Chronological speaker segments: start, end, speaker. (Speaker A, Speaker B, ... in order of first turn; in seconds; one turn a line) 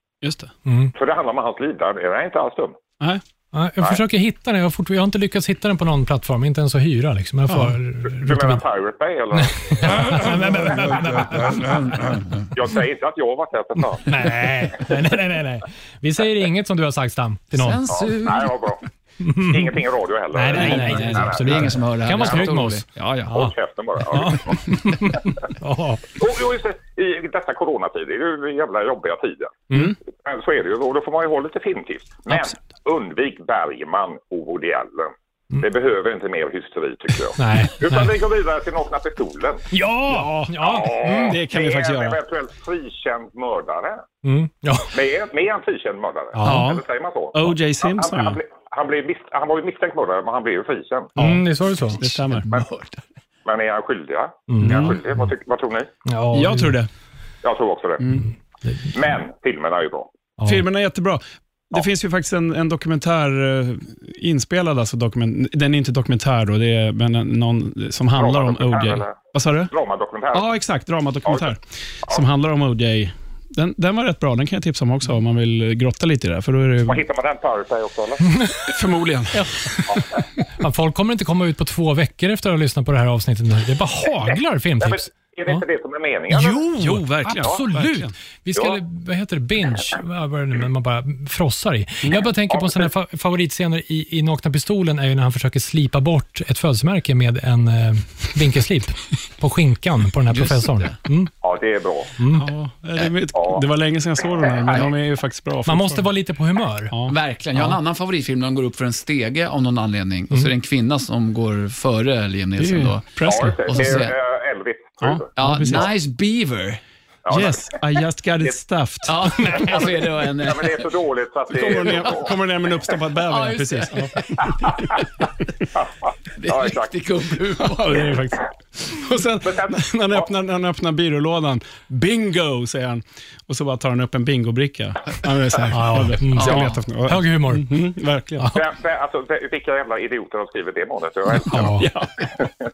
Speaker A: 0.2-0.5
Speaker B: 0.7-0.9
Speaker C: 0.9-2.8
Speaker B: 3.5-8.6
Speaker C: 8.1-10.2
Speaker B: 9.3-11.8
Speaker A: 10.1-11.9
Speaker D: 11.7-12.2
Speaker C: 12.5-14.4
Speaker B: 14.1-17.9
Speaker D: 17.5-18.5
Speaker C: 17.9-18.8
Speaker B: 19.2-19.7
Speaker C: 19.4-22.5
Speaker B: 20.3-23.5
Speaker D: 20.5-23.4
Speaker C: 23.3-25.2
Speaker B: 24.1-26.1
Speaker C: 26.1-39.7
Speaker B: 37.4-38.1
Speaker B: 39.7-41.4
Speaker A: 40.1-42.2
Speaker C: 40.6-44.0
Speaker B: 44.2-44.9
Speaker C: 44.9-51.1
Speaker B: 46.4-46.7
Speaker A: 46.4-48.4
Speaker A: 51.2-51.4
Speaker B: 51.2-52.0
Speaker A: 52.0-52.5
Speaker C: 53.5-55.9
Speaker B: 54.5-55.0
Speaker A: 54.6-55.0
Speaker B: 56.1-56.8
Speaker A: 56.3-56.9
Speaker C: 57.4-58.1
Speaker A: 58.0-58.3
Speaker C: 58.9-60.1
Speaker B: 60.4-60.6
Speaker A: 60.5-69.7
Speaker C: 68.2-70.5
Speaker A: 70.3-77.0
Speaker C: 71.3-71.5
Speaker C: 76.9-78.3
Speaker B: 78.3-78.7
Speaker A: 78.7-80.2
Speaker B: 79.3-79.8
Speaker B: 80.6-85.6
Speaker C: 84.8-86.6
Speaker B: 86.4-101.3
Speaker A: 86.4-88.1
Speaker C: 92.5-92.9
Speaker D: 100.3-100.9
Speaker C: 101.4-102.2
Speaker B: 102.2-102.5
Speaker A: 102.3-106.1
Speaker C: 103.3-103.6
Speaker B: 105.7-106.9
Speaker A: 106.9-107.2
Speaker D: 107.1-114.1
Speaker A: 112.6-113.9
Speaker C: 113.2-115.8
Speaker A: 115.0-115.9
Speaker D: 115.4-116.8
Speaker C: 117.2-117.8
Speaker A: 117.3-119.7
Speaker D: 119.1-120.8
Speaker C: 119.5-122.4
Speaker A: 121.5-124.8
Speaker D: 123.3-124.1
Speaker C: 124.4-125.0
Speaker D: 126.4-128.2
Speaker C: 126.5-126.9
Speaker A: 127.6-138.6
Speaker C: 129.4-130.3
Speaker B: 135.7-137.8
Speaker D: 136.4-136.8
Speaker C: 138.5-142.5
Speaker B: 141.5-141.9
Speaker A: 141.5-142.2